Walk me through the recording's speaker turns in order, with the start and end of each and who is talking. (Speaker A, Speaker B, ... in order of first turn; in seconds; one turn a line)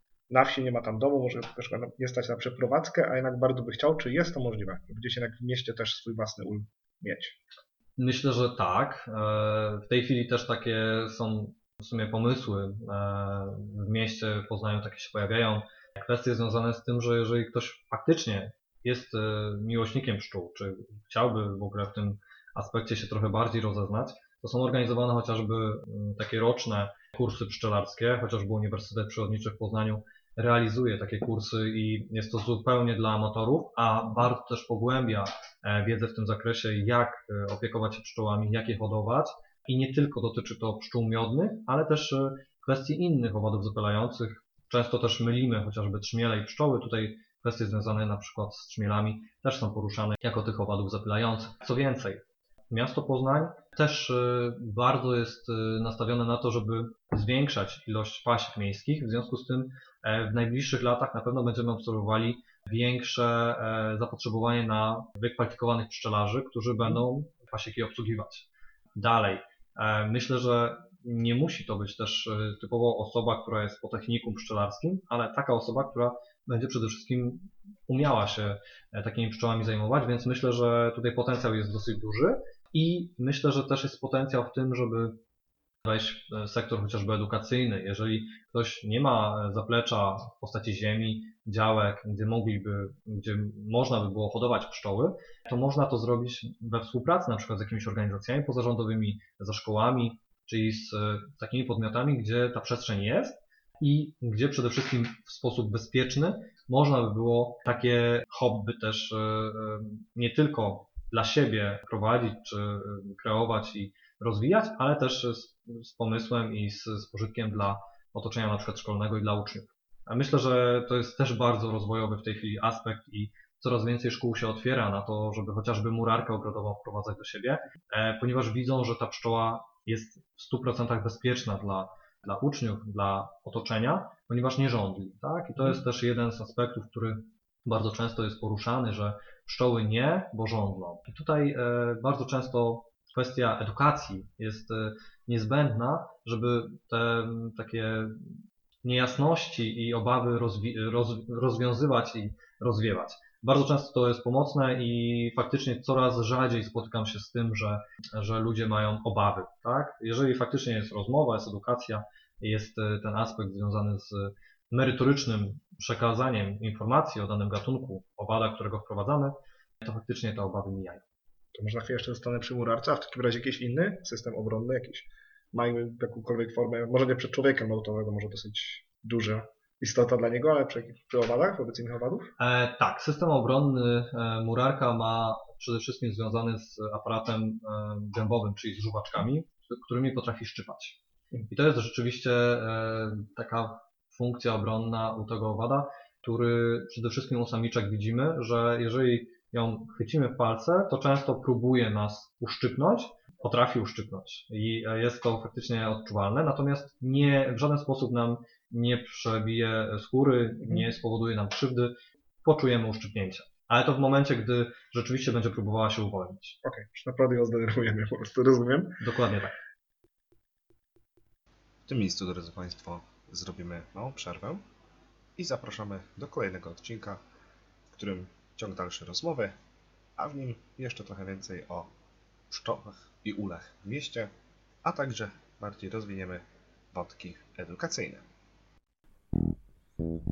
Speaker A: 0.3-7.4
Speaker B: 8.0-85.2
Speaker B: 85.8-171.0
Speaker A: 171.5-182.3
Speaker B: 182.4-216.6
Speaker A: 216.6-219.0
Speaker B: 219.0-219.6
Speaker A: 221.9-222.3
Speaker C: 221.9-224.3
Speaker A: 222.9-224.6
Speaker C: 225.4-227.1
Speaker A: 225.4-227.1
Speaker A: 228.0-229.5
Speaker C: 228.0-228.8
Speaker A: 230.2-231.8
Speaker C: 232.5-233.8
Speaker A: 232.6-234.3
Speaker C: 234.9-236.4
Speaker A: 234.9-236.4
Speaker C: 236.9-237.8
Speaker A: 237.8-238.2